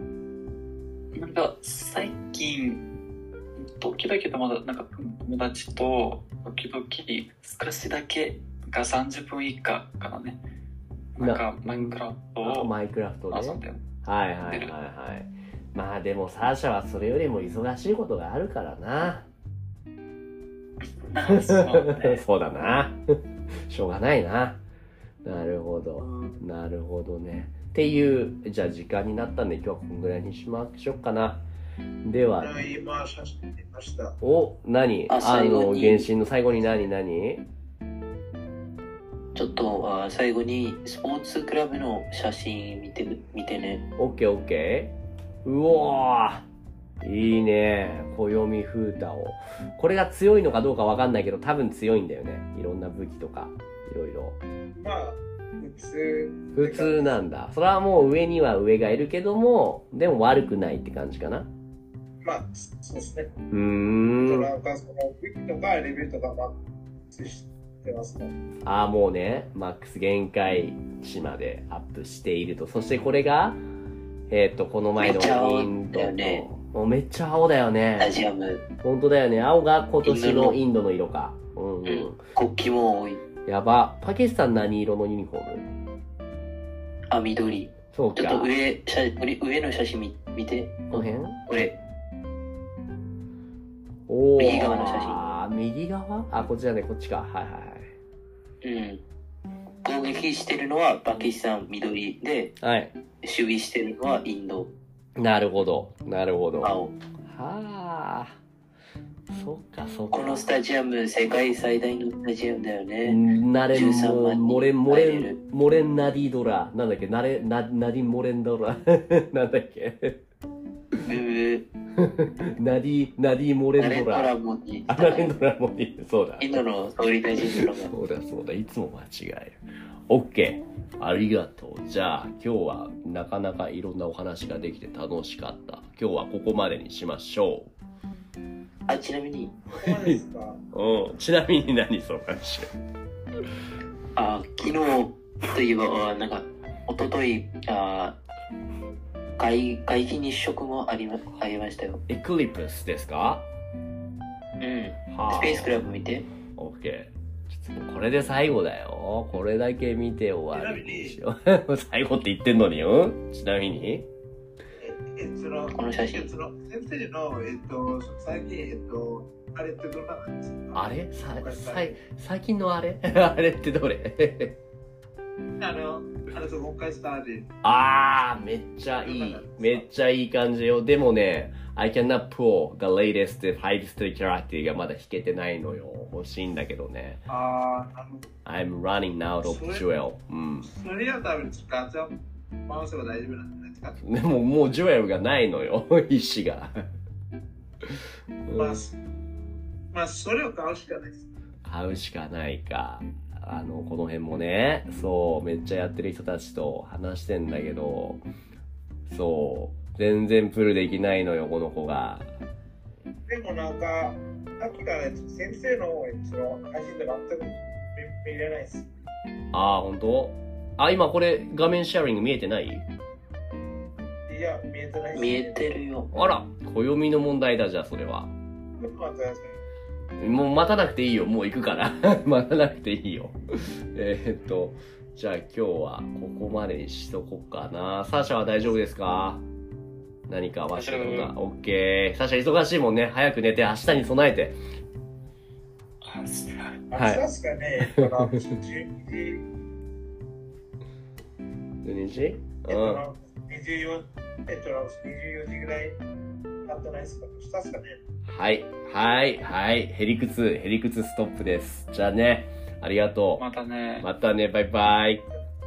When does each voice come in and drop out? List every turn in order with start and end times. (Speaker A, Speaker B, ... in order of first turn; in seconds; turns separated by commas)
Speaker A: 1.1-2.8, Speaker A: 3.6-10.4, Speaker A: 11.1-12.7, Speaker B: 11.2-19.3, Speaker A: 13.3-13.8, Speaker A: 14.5-14.7, Speaker A: 21.1-22.2, Speaker B: 21.2-23.0, Speaker B: 23.5-24.6, Speaker B: 25.2-31.4, Speaker B: 32.0-32.7, Speaker C: 32.4-34.2, Speaker B: 34.2-37.5, Speaker D: 35.1-36.1, Speaker D: 39.3-43.8, Speaker B: 44.0-46.5, Speaker B: 47.0-54.4, Speaker C: 54.7-57.2, Speaker B: 56.5-61.5, Speaker C: 62.2-63.3, Speaker B: 63.5-64.5, Speaker C: 64.2-66.6, Speaker C: 67.1-68.3, Speaker B: 68.6-73.6, Speaker B: 74.3-78.2, Speaker D: 75.0-76.5, Speaker D: 78.0-78.6, Speaker B: 78.8-82.2, Speaker D: 80.0-80.6, Speaker D: 81.8-83.2, Speaker B: 83.5-85.7, Speaker D: 87.1-91.7, Speaker B: 87.9-88.5, Speaker B: 90.9-91.4, Speaker B: 94.1-97.9, Speaker D: 94.4-95.3, Speaker D: 98.6-99.0, Speaker D: 99.8-102.5, Speaker B: 102.6-102.9, Speaker D: 103.2-104.7, Speaker B: 105.2-108.4, Speaker D: 106.6-106.9, Speaker B: 109.3-110.5, Speaker D: 110.1-113.2, Speaker B: 113.0-120.2, Speaker D: 113.7-115.4, Speaker D: 121.0-121.7, Speaker B: 122.0-124.3, Speaker D: 123.8-125.3, Speaker B: 124.9-126.6, Speaker D: 126.4-127.9, Speaker B: 127.4-137.7, Speaker D: 138.9-139.6, Speaker C: 139.7-140.6, Speaker B: 139.8-140.2, Speaker B: 140.7-142.7, Speaker D: 144.2-148.2, Speaker D: 149.4-152.0, Speaker B: 152.1-153.4, Speaker D: 154.6-156.3, Speaker B: 155.1-155.7, Speaker B: 156.6-164.1, Speaker C: 160.5-161.2, Speaker C: 164.8-172.0, Speaker D: 165.7-166.3, Speaker B: 170.7-174.6, Speaker C: 175.6-177.5, Speaker B: 177.6-187.2, Speaker C: 179.0-179.8, Speaker C: 187.3-188.3, Speaker B: 188.4-190.7, Speaker C: 189.4-189.8, Speaker C: 190.6-194.0, Speaker B: 194.0-196.8, Speaker B: 197.8-198.8, Speaker C: 198.5-199.0, Speaker C: 199.9-201.2, Speaker B: 201.6-208.2, Speaker B: 209.1-212.3, Speaker C: 213.3-218.9, Speaker B: 219.5-222.8, Speaker C: 224.3-225.8, Speaker D: 225.1-226.1, Speaker B: 226.1-228.3, Speaker C: 228.8-229.6, Speaker B: 230.2-239.4, Speaker B: 240.3-244.6, Speaker A: 240.7-241.3, Speaker A: 246.0-246.8, Speaker C: 246.9-249.4, Speaker B: 246.9-247.2, Speaker B: 247.8-248.6, Speaker B: 251.8-253.0, Speaker C: 252.7-256.0, Speaker C: 256.6-258.0, Speaker B: 258.2-263.4, Speaker A: 263.4-264.1, Speaker B: 264.0-265.2